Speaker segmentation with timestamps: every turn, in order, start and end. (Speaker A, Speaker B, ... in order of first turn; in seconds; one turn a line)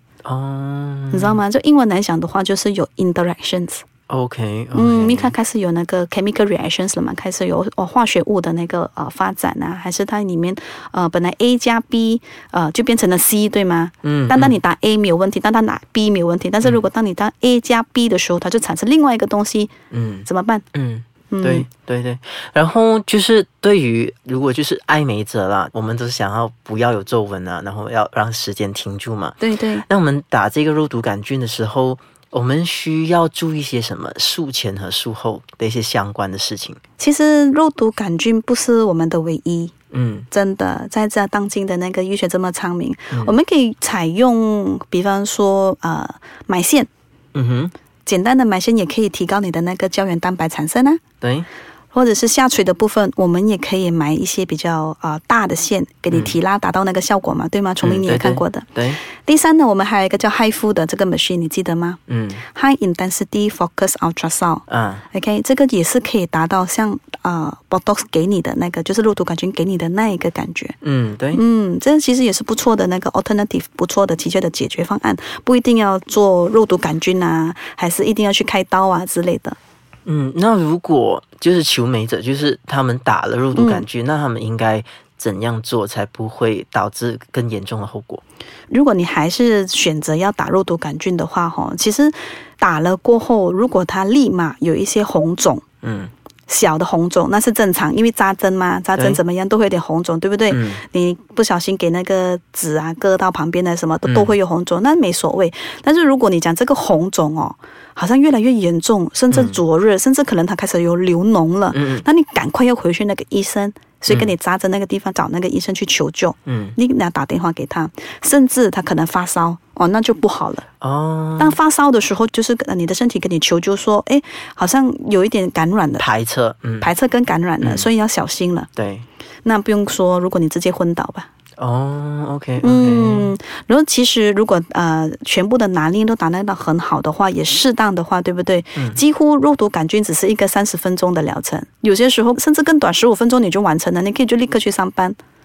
Speaker A: 0.2-1.4
Speaker B: 1.1-3.8
Speaker A: 4.1-5.3
Speaker B: 4.7-19.7
Speaker A: 14.0-14.6
Speaker A: 19.9-36.8
Speaker B: 20.3-20.6
Speaker B: 21.3-21.7
Speaker B: 29.4-29.9
Speaker B: 37.0-39.7
Speaker A: 39.9-40.3
Speaker B: 40.3-46.9
Speaker A: 43.1-43.4
Speaker A: 47.3-47.7
Speaker B: 48.0-51.0
Speaker A: 51.2-51.5
Speaker B: 51.9-70.8
Speaker A: 56.1-56.4
Speaker A: 57.8-59.0
Speaker A: 62.1-62.4
Speaker A: 64.7-65.0
Speaker A: 70.8-71.4
Speaker B: 71.3-79.6
Speaker A: 80.1-88.2
Speaker B: 83.5-83.8
Speaker B: 88.7-95.6
Speaker A: 95.8-96.1
Speaker B: 96.5-120.7
Speaker A: 99.0-99.2
Speaker A: 100.5-100.8
Speaker A: 104.1-104.4
Speaker A: 109.3-109.6
Speaker A: 111.7-112.1
Speaker A: 114.1-114.3
Speaker A: 116.5-116.8
Speaker A: 120.8-121.6
Speaker B: 121.4-126.1
Speaker A: 126.0-126.9
Speaker B: 126.8-128.7
Speaker A: 127.6-127.9
Speaker A: 128.8-129.1
Speaker B: 129.4-131.3
Speaker A: 131.6-133.3
Speaker B: 132.6-145.2